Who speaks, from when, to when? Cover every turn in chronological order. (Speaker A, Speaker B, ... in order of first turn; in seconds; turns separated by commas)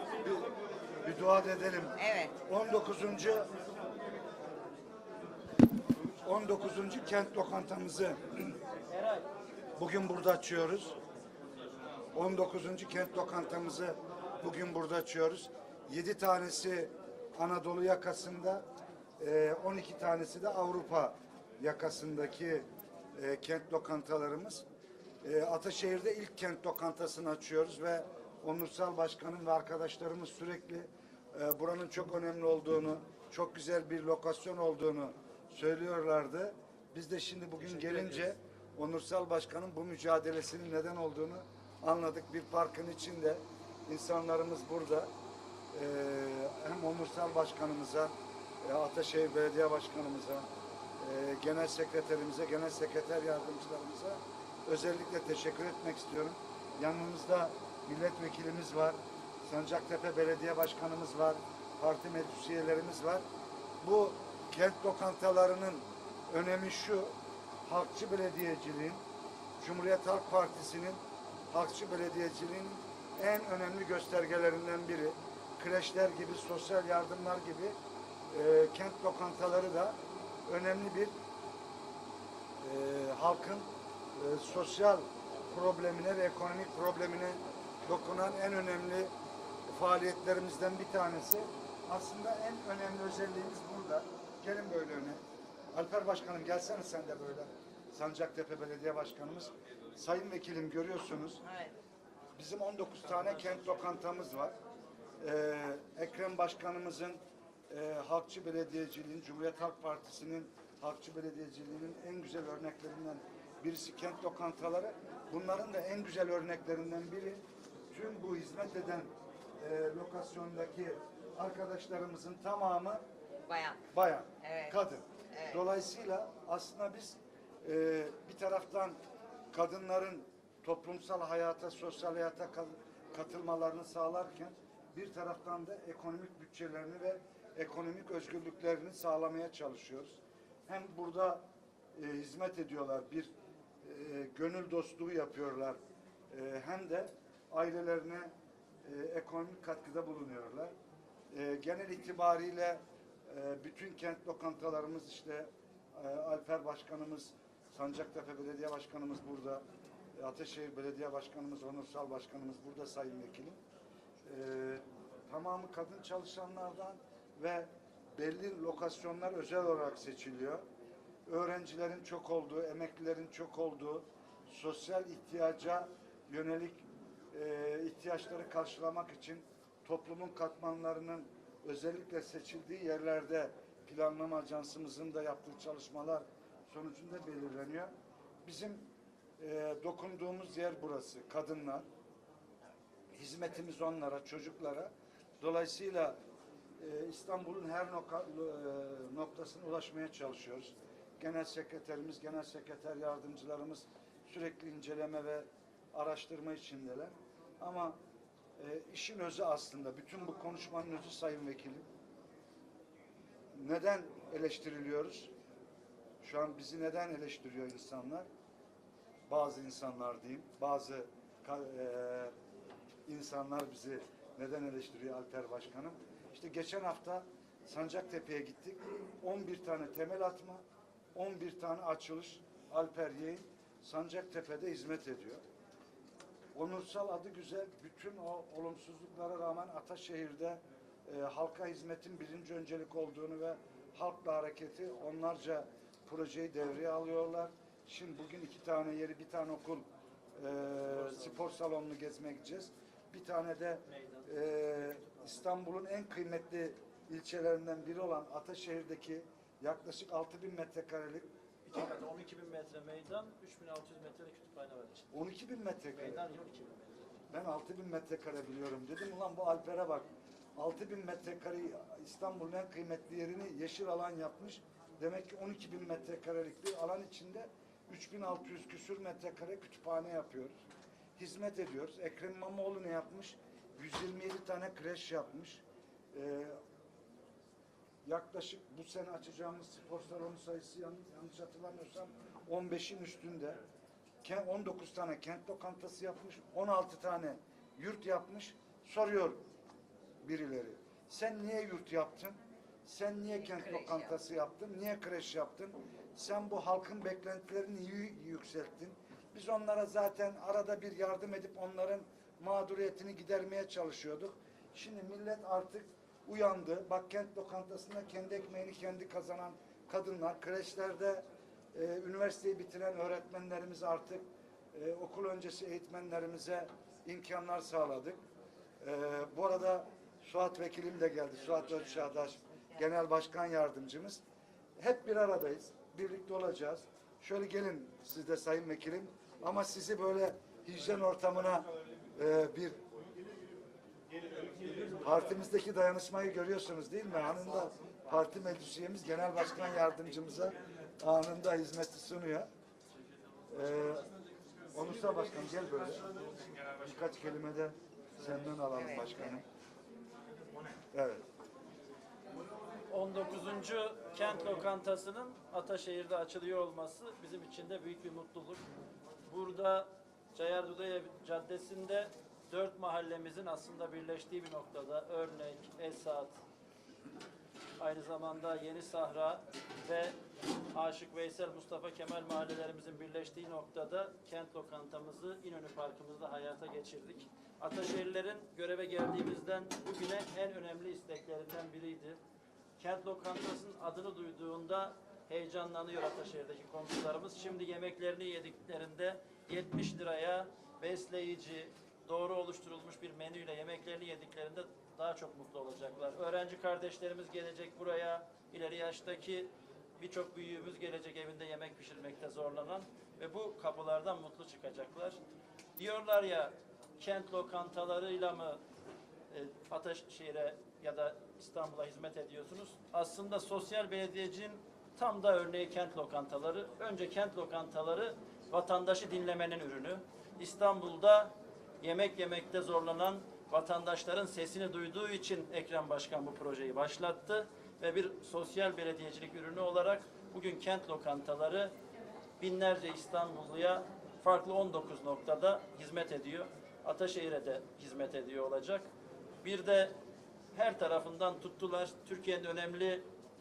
Speaker A: 0.2-0.5, Speaker A: 1.0-3.5, Speaker B: 2.0-2.4, Speaker A: 6.2-8.6, Speaker C: 8.9-9.3, Speaker A: 9.8-11.0, Speaker A: 12.1-18.6, Speaker A: 19.2-24.6, Speaker A: 25.2-45.1, Speaker A: 45.7-50.5, Speaker A: 51.0-63.2, Speaker A: 63.8-67.1, Speaker A: 67.7-69.0, Speaker A: 69.6-71.0, Speaker A: 71.5-77.8, Speaker A: 78.3-81.1, Speaker A: 82.6-89.1, Speaker A: 89.7-95.2, Speaker A: 95.7-101.4, Speaker B: 101.4-101.7, Speaker A: 102.4-104.5, Speaker A: 105.2-123.0, Speaker B: 123.5-123.8, Speaker A: 123.9-129.0, Speaker B: 124.4-124.8, Speaker B: 125.3-125.6, Speaker A: 129.5-141.4, Speaker A: 141.9-145.8, Speaker A: 146.3-148.3, Speaker A: 148.8-150.7, Speaker A: 151.3-159.6, Speaker A: 160.2-163.6, Speaker A: 164.2-170.6, Speaker A: 171.3-187.9, Speaker A: 188.4-188.9, Speaker A: 189.4-191.9, Speaker A: 193.1-196.2, Speaker A: 196.8-208.0, Speaker A: 208.6-211.9, Speaker A: 213.6-215.3, Speaker A: 216.2-218.3, Speaker A: 219.3-222.3, Speaker A: 223.1-230.6, Speaker A: 231.2-235.4, Speaker A: 236.6-261.3, Speaker C: 250.9-251.5, Speaker C: 253.9-255.2, Speaker C: 261.7-265.1, Speaker A: 265.1-266.2, Speaker C: 265.9-267.2, Speaker A: 267.3-280.6, Speaker A: 281.2-286.6, Speaker A: 288.0-293.6, Speaker A: 294.2-299.4, Speaker A: 300.2-328.2, Speaker B: 303.4-304.1, Speaker A: 328.8-334.2, Speaker A: 334.8-342.8, Speaker A: 344.9-352.5, Speaker A: 353.5-354.1, Speaker A: 354.7-356.1, Speaker A: 356.8-359.4, Speaker B: 358.7-359.4, Speaker A: 360.9-361.2, Speaker C: 362.9-368.6, Speaker C: 369.3-376.4, Speaker C: 377.8-380.2, Speaker C: 380.7-392.2, Speaker C: 392.8-415.2, Speaker C: 415.8-418.6, Speaker C: 419.3-441.7, Speaker C: 442.4-448.9, Speaker C: 449.4-449.9, Speaker C: 450.5-453.1